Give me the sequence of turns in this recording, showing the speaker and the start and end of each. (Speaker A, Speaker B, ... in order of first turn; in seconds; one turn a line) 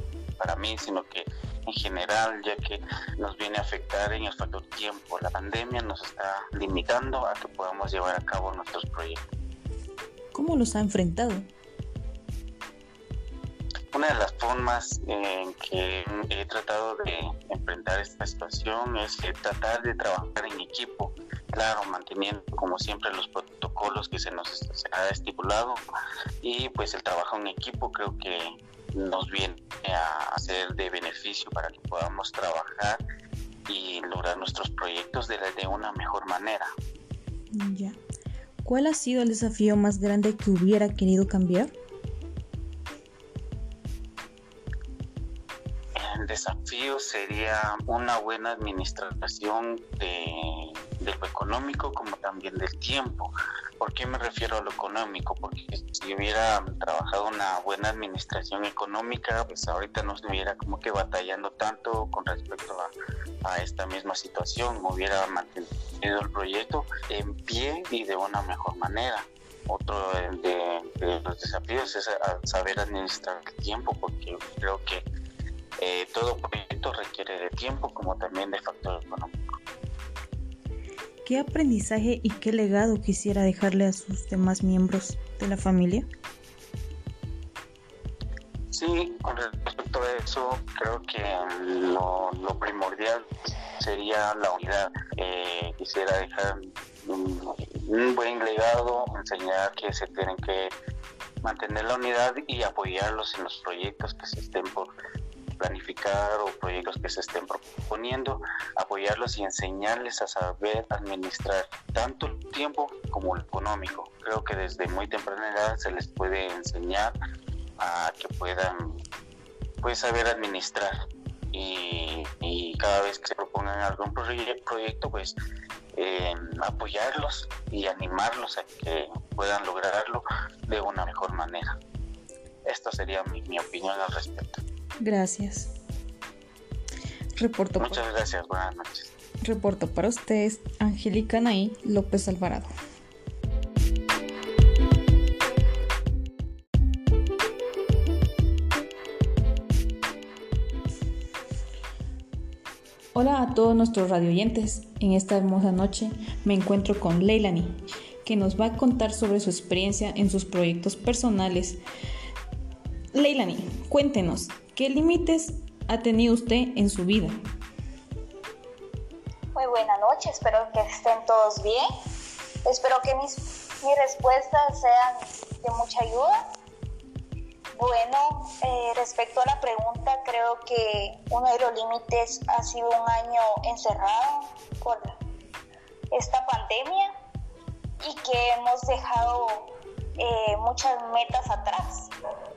Speaker A: 0.4-9.2
Speaker B: 10.3-11.5
Speaker A: 13.9-25.8
Speaker A: 26.4-33.0
Speaker A: 33.7-36.7
Speaker B: 37.5-38.0
Speaker B: 38.6-41.7
Speaker A: 46.0-62.9
Speaker A: 63.4-75.0
Speaker A: 75.8-79.3
Speaker B: 81.3-86.1
Speaker A: 88.7-93.2
Speaker A: 93.8-100.8
Speaker A: 101.4-104.9
Speaker A: 105.6-117.2
Speaker A: 117.8-119.0
Speaker A: 119.8-120.9
Speaker A: 121.5-125.4
Speaker A: 125.9-131.8
Speaker A: 132.7-134.6
Speaker B: 135.0-135.7
Speaker B: 137.4-138.0
Speaker A: 137.8-139.1
Speaker B: 139.4-142.7
Speaker B: 153.2-161.8
Speaker B: 163.1-167.4
Speaker C: 169.6-171.9
Speaker C: 172.7-176.3
Speaker C: 177.7-185.2
Speaker C: 186.1-187.1
Speaker C: 188.0-192.1